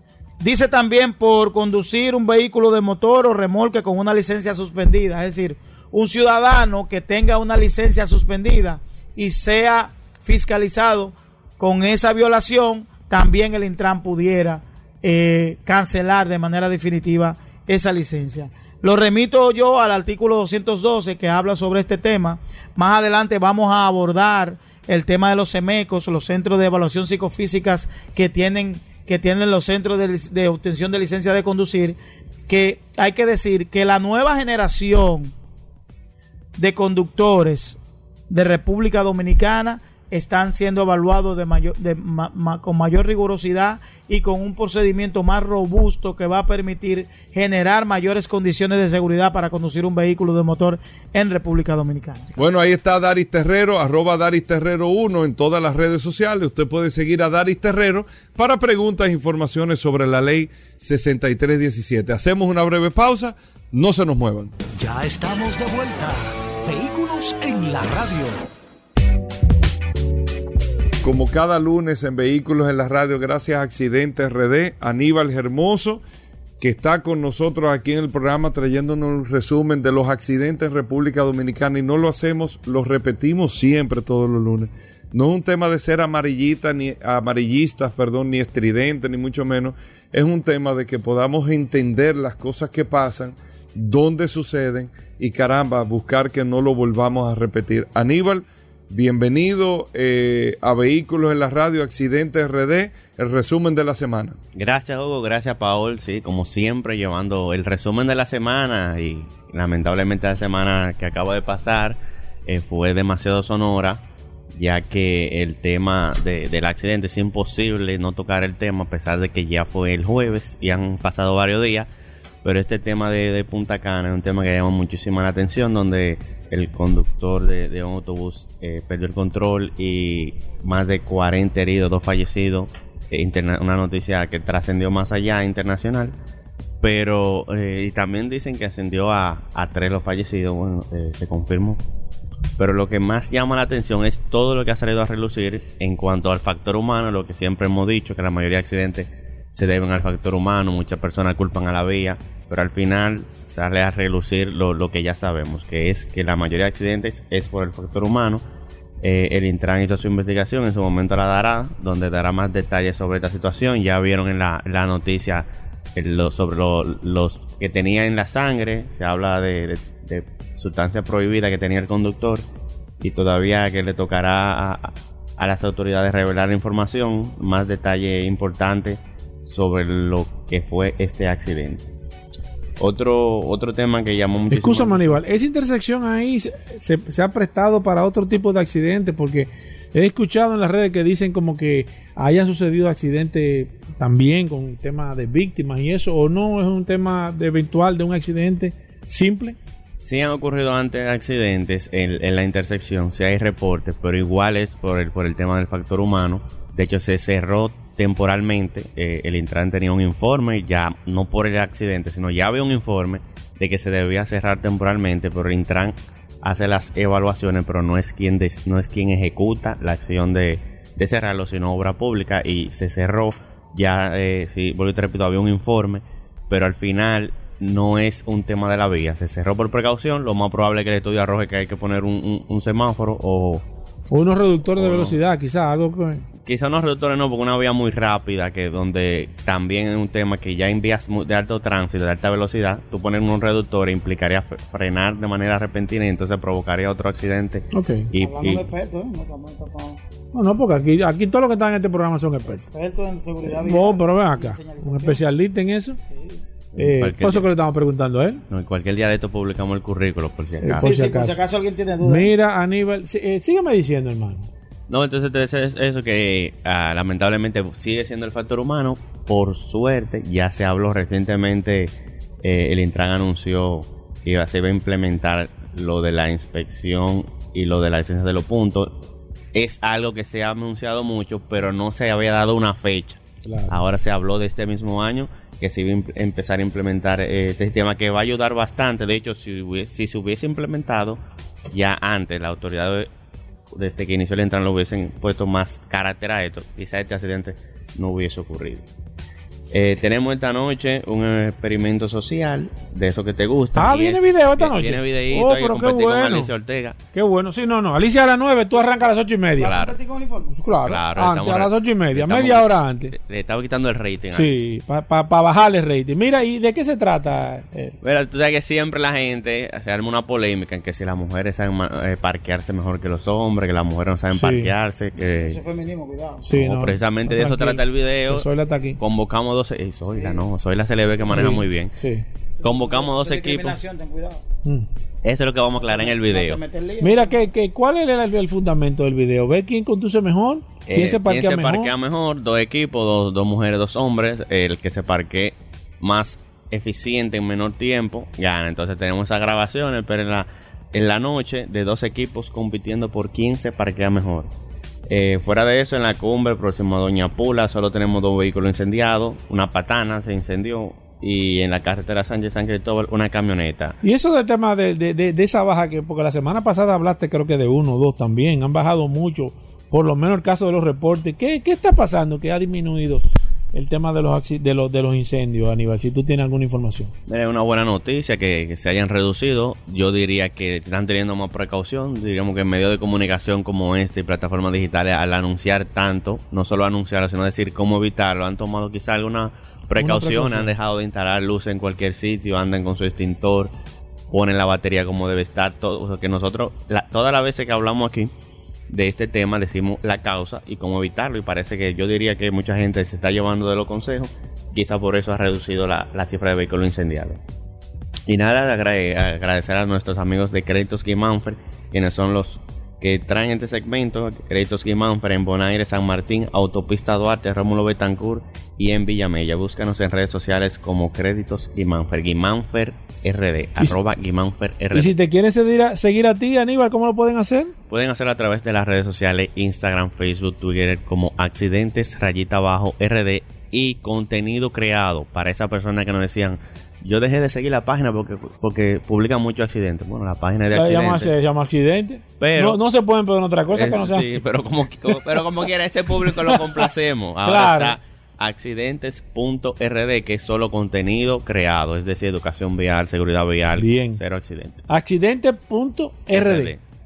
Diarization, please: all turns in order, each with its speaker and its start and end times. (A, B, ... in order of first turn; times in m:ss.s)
0:00.4-0:32.0 A
0:32.5-0:35.3 A
0:36.6-0:37.8 A
0:38.3-0:52.4 A
0:52.4-1:04.5 B
1:04.8-1:08.4 C
1:11.0-1:16.0 B
1:16.6-1:44.4 B
1:44.5-1:54.0 D
1:54.5-2:01.9 D
2:02.4-2:16.1 D
2:16.8-2:21.8 D
2:22.6-2:38.4 D
2:39.0-2:52.4 D
2:53.0-3:01.9 D
3:02.8-3:05.2 D
3:04.5-3:19.6 E
3:20.0-3:53.6 D
3:54.1-3:56.2 E
3:54.8-3:55.2 D
3:56.4-4:08.6 D
4:07.7-4:08.1 E
4:08.2-4:10.0 A
4:10.3-4:12.6 E
4:12.6-4:15.2 A
4:13.5-4:16.0 E
4:16.7-4:17.5 D
4:16.8-4:18.4 E
4:18.5-4:21.0 D
4:20.6-4:21.4 E
4:20.8-4:22.3 A
4:22.0-4:24.5 E
4:24.9-4:38.9 D
4:39.5-4:53.1 D
4:43.4-4:43.8 E
4:53.7-4:58.9 D
4:59.7-5:07.0 D
5:03.7-5:06.5 E
5:07.1-5:09.7 E
5:09.6-5:10.6 A
5:09.6-5:10.0 D
5:10.6-5:13.1 E
5:10.8-5:14.6 D
5:14.3-5:18.0 E
5:18.0-5:25.6 D
5:24.3-5:24.7 E
5:25.4-5:26.5 A
5:26.4-5:29.0 E
5:26.5-5:31.9 D
5:30.1-5:30.5 A
5:31.3-5:32.2 E
5:32.6-5:34.4 A
5:32.6-5:33.8 D
5:35.2-5:36.6 D
5:35.8-5:37.4 A
5:37.0-5:41.9 E
5:40.9-5:54.5 D
5:55.1-6:04.0 D
6:04.0-6:17.1 E
6:17.3-6:33.7 D
6:30.0-6:30.7 E
6:34.3-6:38.3 D
6:38.9-6:47.4 D
6:48.3-7:05.1 D
7:04.9-7:07.7 E
7:07.9-7:21.3 D
7:20.7-7:24.4 E
7:22.4-7:22.8 D
7:23.7-7:34.8 D
7:26.2-7:26.8 E
7:27.4-7:28.0 E
7:33.8-7:34.2 E
7:34.9-7:36.7 E
7:36.3-7:36.8 D